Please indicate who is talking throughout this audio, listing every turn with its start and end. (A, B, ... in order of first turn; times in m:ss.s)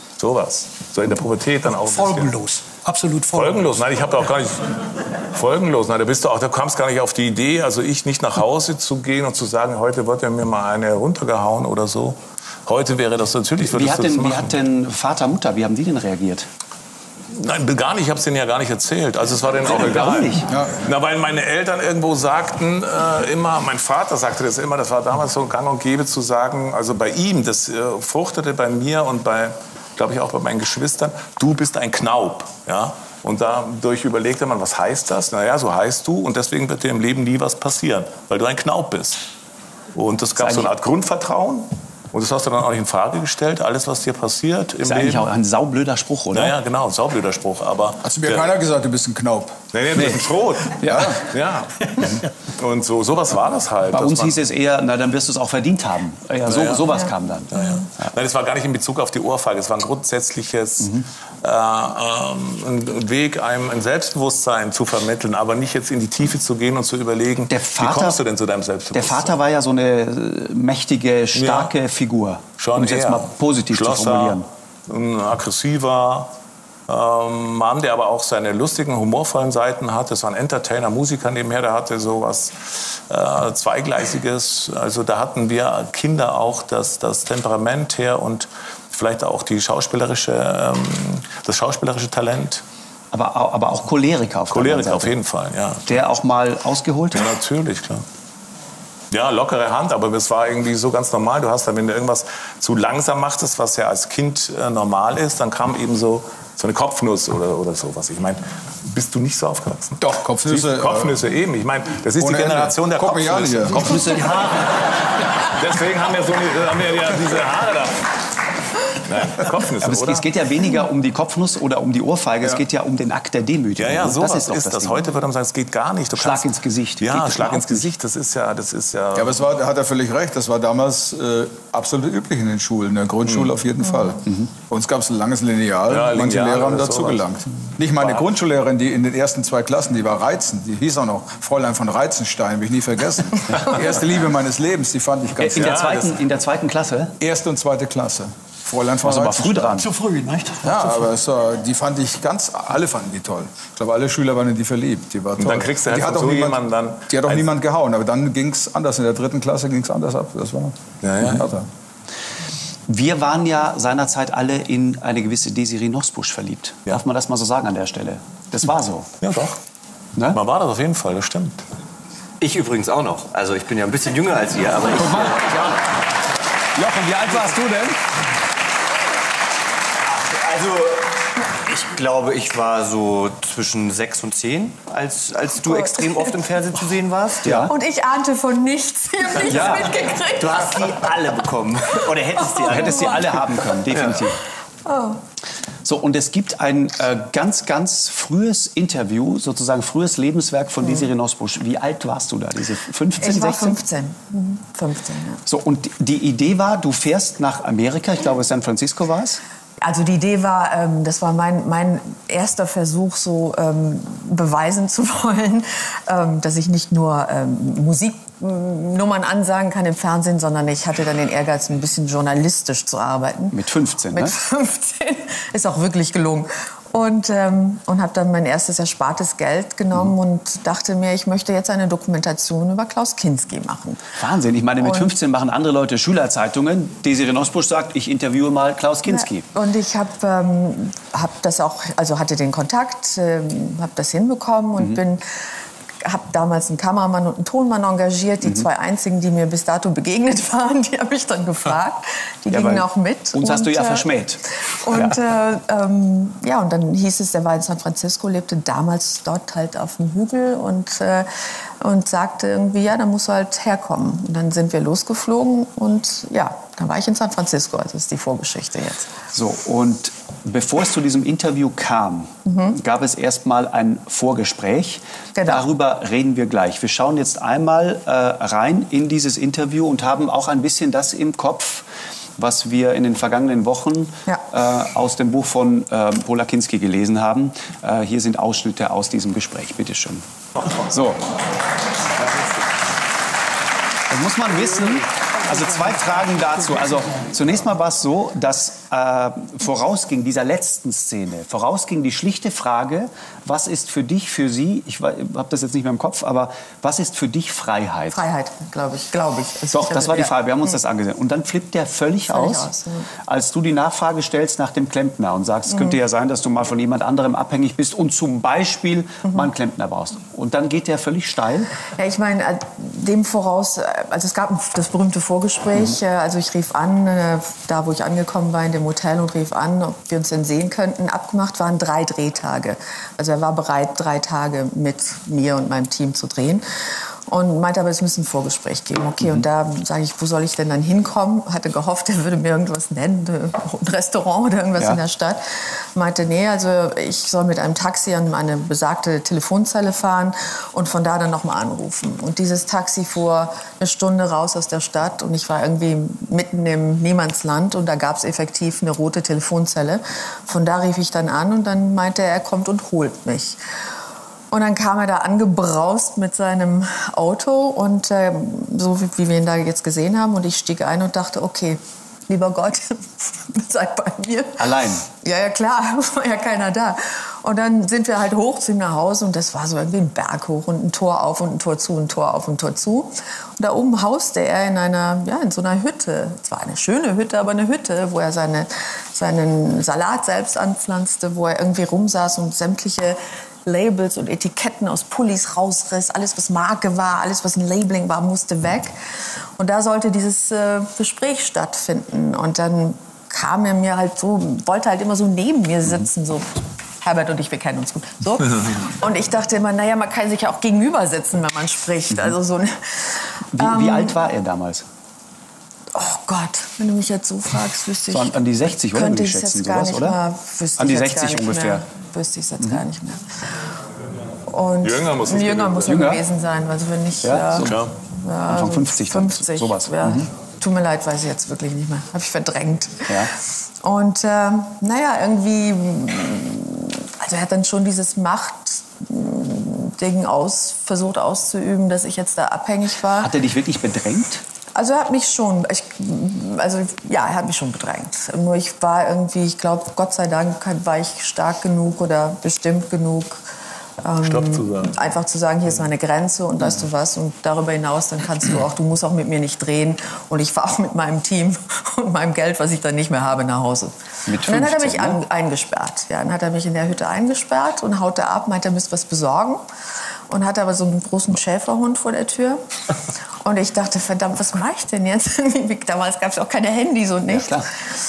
0:00.2-0:02.4 A
0:01.7-0:03.7 B
0:03.3-0:14.6 A
0:13.6-0:16.5 C
0:17.3-0:39.2 A
0:19.6-0:20.5 C
0:20.5-0:20.8 D
0:40.0-0:45.3 A
0:40.4-0:40.7 C
0:44.8-0:46.5 C
0:46.3-0:48.5 A
0:48.0-0:49.6 D
0:49.7-0:54.4 A
0:50.0-0:50.2 C
0:50.8-0:51.1 C
0:50.9-0:51.1 D
0:53.9-0:57.5 C
0:56.5-0:56.9 A
0:57.5-1:09.4 A
1:07.5-1:08.2 C
1:08.9-1:14.5 C
1:11.4-1:11.7 A
1:12.6-1:16.3 A
1:16.9-1:32.6 A
1:33.1-1:35.1 C
1:34.5-1:35.9 A
1:35.9-1:37.3 C
1:37.1-1:38.0 A
1:39.1-1:54.5 A
1:50.0-1:51.2 D
1:52.2-1:54.2 D
1:53.7-1:54.6 C
1:55.2-1:58.1 A
1:58.9-2:00.3 A
1:59.8-2:05.0 C
2:03.8-2:09.5 A
2:06.2-2:07.9 C
2:09.2-2:25.9 D
2:13.3-2:13.5 A
2:15.9-2:17.3 A
2:17.8-2:18.3 A
2:25.4-2:27.1 C
2:25.6-2:26.1 A
2:27.2-2:29.8 D
2:29.0-2:29.9 C
2:29.8-2:30.9 B
2:30.6-2:41.7 D
2:35.4-2:37.5 A
2:41.0-2:41.5 A
2:42.9-2:49.1 C
2:49.2-2:49.6 A
2:50.3-2:51.6 A
2:52.4-2:55.8 E
2:54.9-2:55.6 C
2:56.8-2:58.0 C
3:00.1-3:01.1 E
3:01.6-3:07.7 E
3:05.7-3:06.3 F
3:07.4-3:07.7 C
3:07.7-3:11.0 F
3:09.4-3:09.8 E
3:09.4-3:09.9 C
3:10.4-3:13.3 E
3:12.6-3:13.3 F
3:12.6-3:14.4 C
3:13.9-3:14.2 E
3:14.9-3:15.2 F
3:15.8-3:23.8 C
3:23.2-3:25.4 F
3:25.5-3:29.4 C
3:29.8-3:43.6 F
3:43.5-3:44.3 C
3:44.1-3:54.0 F
3:54.2-3:59.4 C
3:54.8-3:55.1 F
3:59.1-4:05.2 F
4:06.0-4:14.1 F
4:08.4-4:08.7 C
4:12.5-4:15.2 C
4:14.8-4:29.1 F
4:29.3-4:41.8 C
4:32.5-4:32.8 F
4:35.4-4:35.7 F
4:42.4-4:50.2 C
4:50.8-4:51.2 C
4:54.1-5:08.2 C
5:08.1-5:10.8 F
5:09.7-5:12.7 C
5:12.3-5:13.1 F
5:13.3-5:21.7 C
5:15.7-5:16.0 F
5:22.0-5:36.6 F
5:37.3-5:45.4 F
5:46.0-6:03.6 F
6:04.5-6:14.6 F
6:14.6-6:15.1 C
6:15.2-6:38.9 F
6:39.6-6:54.2 F
6:53.5-6:54.8 C
6:55.9-7:03.2 F
6:58.1-7:00.2 C
7:00.8-7:01.8 C
7:04.5-7:13.1 F
7:04.8-7:06.1 A
7:05.9-7:06.2 C
7:07.2-7:07.9 C
7:07.6-7:07.9 A
7:08.5-7:10.3 C
7:13.8-7:23.3 F
7:23.2-7:24.4 C
7:24.8-7:33.4 F
7:34.0-7:49.6 F
7:34.2-7:35.1 A
7:44.3-7:45.2 C
7:50.3-7:52.6 F
7:53.4-7:57.7 F
7:57.3-7:57.7 C